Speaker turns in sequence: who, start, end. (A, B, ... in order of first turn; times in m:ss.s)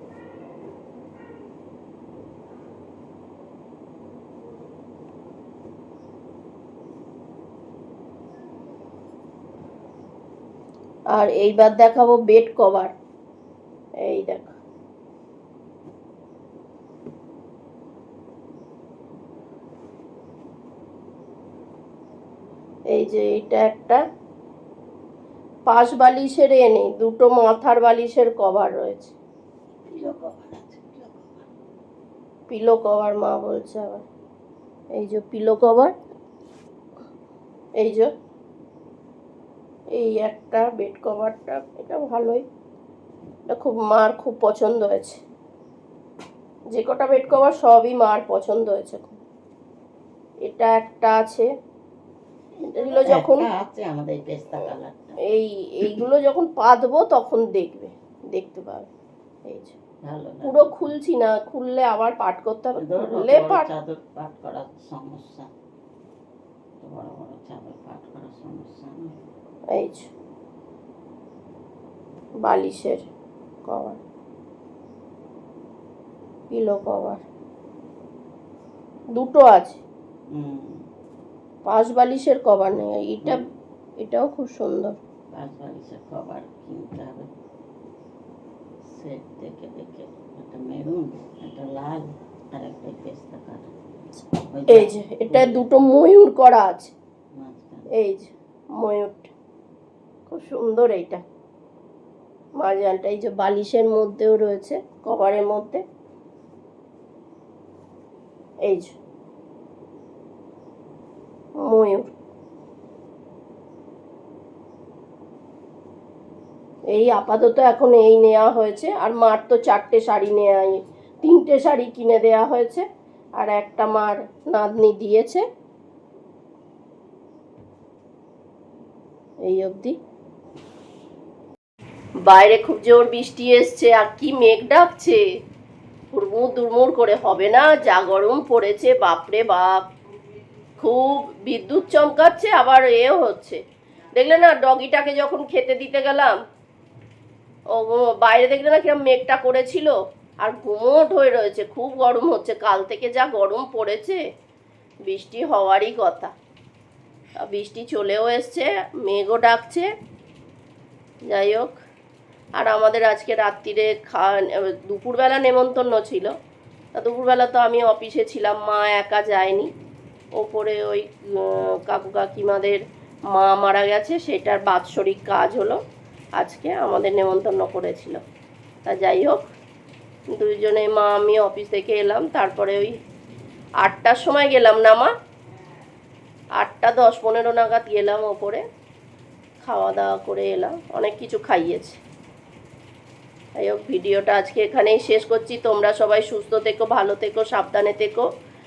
0:11.1-0:12.9 A
0:14.0-0:14.6 A
0:22.9-0:24.0 A
0:25.7-0:29.2 A
0:29.8-0:31.5 B
0:32.5-0:34.0 A
0:35.0-0:35.9 A
0:37.8-0:38.1 A
0:39.9-0:42.4 A
0:43.5-0:45.2 A
0:46.7-0:49.2 A
0:50.4-0:51.5 A
0:52.6-0:53.5 A
0:52.8-0:55.2 B
0:55.3-0:58.9 A
0:59.5-0:59.8 A
1:00.0-1:00.9 B
1:00.4-1:03.7 A
1:02.8-1:05.5 B
1:06.8-1:09.1 B
1:09.7-1:10.1 A
1:12.4-1:13.0 A
1:13.7-1:14.0 A
1:16.5-1:17.2 A
1:19.2-1:19.8 A
1:20.3-1:20.8 B
1:21.6-1:23.4 A
1:24.0-1:25.0 A
1:25.3-1:27.3 B
1:28.9-1:33.7 B
1:34.5-1:35.7 B
1:34.7-1:36.9 A
1:37.4-1:37.9 B
1:37.9-1:39.3 A
1:40.3-1:41.2 A
1:42.6-1:45.8 A
1:48.6-1:49.0 A
1:51.6-1:52.1 A
1:56.9-2:02.9 A
2:03.4-2:05.4 A
2:09.5-2:10.0 A
2:12.2-2:15.2 A
2:16.1-2:19.9 A
2:20.8-2:23.6 A
2:24.2-2:26.4 A
2:27.7-2:34.2 A
2:35.1-2:36.3 A
2:37.4-2:39.9 A
2:41.3-2:41.8 A
2:42.6-2:46.3 A
2:47.0-2:49.7 A
2:50.4-2:55.8 A
2:56.4-2:58.2 A
2:58.9-2:59.5 A
3:00.3-3:03.0 A
3:03.8-3:05.1 A
3:06.6-3:08.6 A
3:09.6-3:12.0 A
3:13.6-3:18.3 A